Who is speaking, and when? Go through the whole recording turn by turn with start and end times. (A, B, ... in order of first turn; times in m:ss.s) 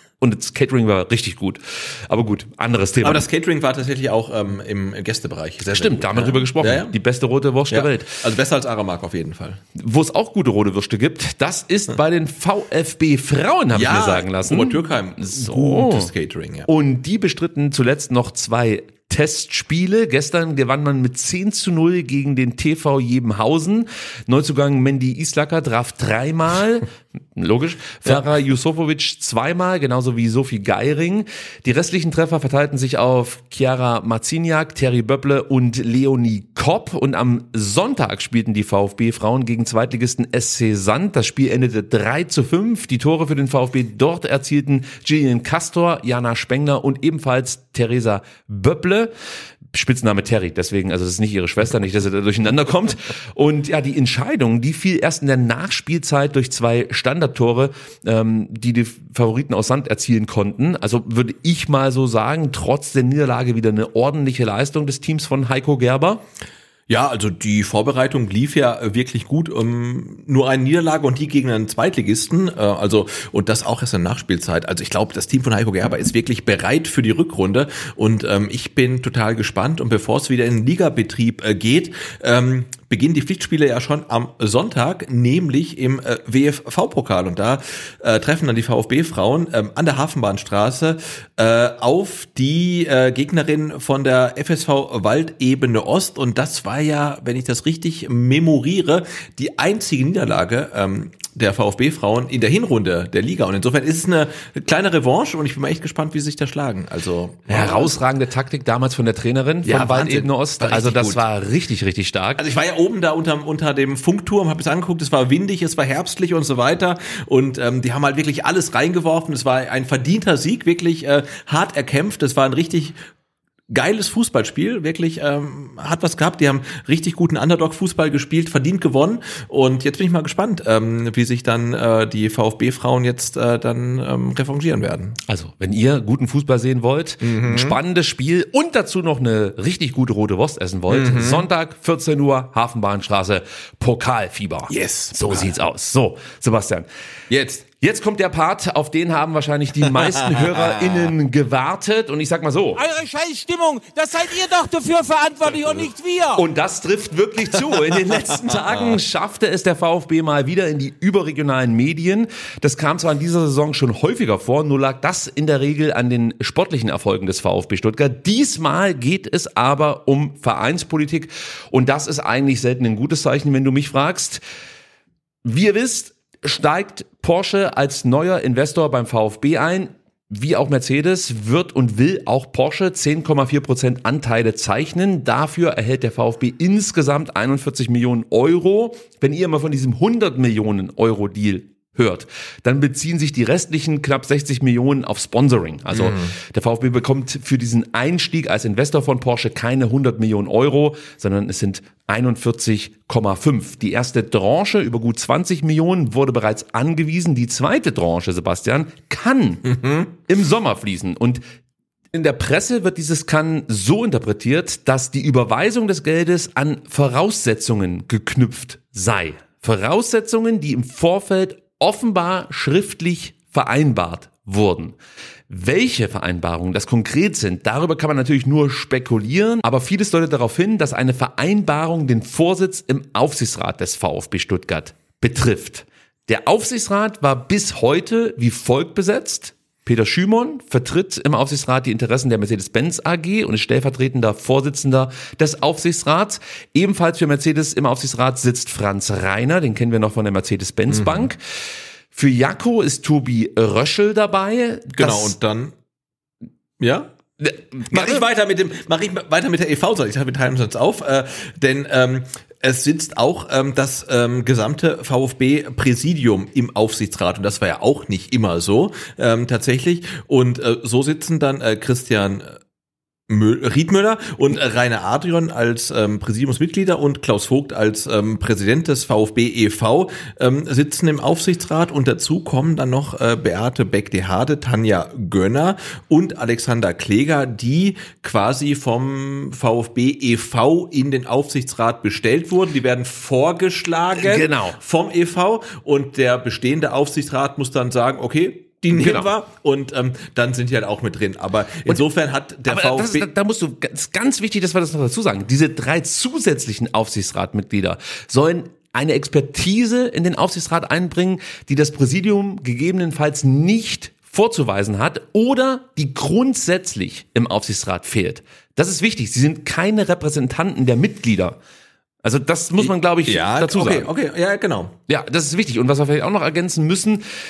0:00.2-0:03.3 A
0:03.0-0:07.0 B
0:05.7-0:08.2 A
0:07.7-0:09.6 B
0:09.8-0:16.1 A
0:13.7-0:16.7 B
0:16.7-0:49.1 A
0:49.7-1:06.2 A
1:06.9-1:48.0 B
1:47.5-1:52.4 A
1:49.6-1:51.2 B
1:52.4-2:03.0 B
2:03.7-2:15.2 B
2:15.3-2:26.9 A
2:17.2-2:17.8 B
2:20.9-2:21.4 B
2:24.7-2:25.6 B
2:27.3-2:27.6 B
2:27.8-2:32.8 A
2:29.8-2:31.1 B
2:32.8-2:36.4 C
2:36.3-2:54.4 A
2:55.4-3:31.4 A
3:15.9-3:16.3 B
3:29.7-3:30.1 B
3:32.1-3:45.0 A
3:45.5-4:11.4 A
4:10.9-4:11.3 B
4:12.1-4:15.4 A
4:15.0-4:15.7 B
4:16.8-4:17.1 B
4:17.4-4:18.2 A
4:17.9-4:32.6 B
4:33.3-5:03.3 B
4:54.2-4:54.8 A
4:58.9-4:59.3 A
5:02.7-5:21.6 A
5:22.2-5:24.1 A
5:22.8-5:25.0 B
5:25.1-5:27.2 A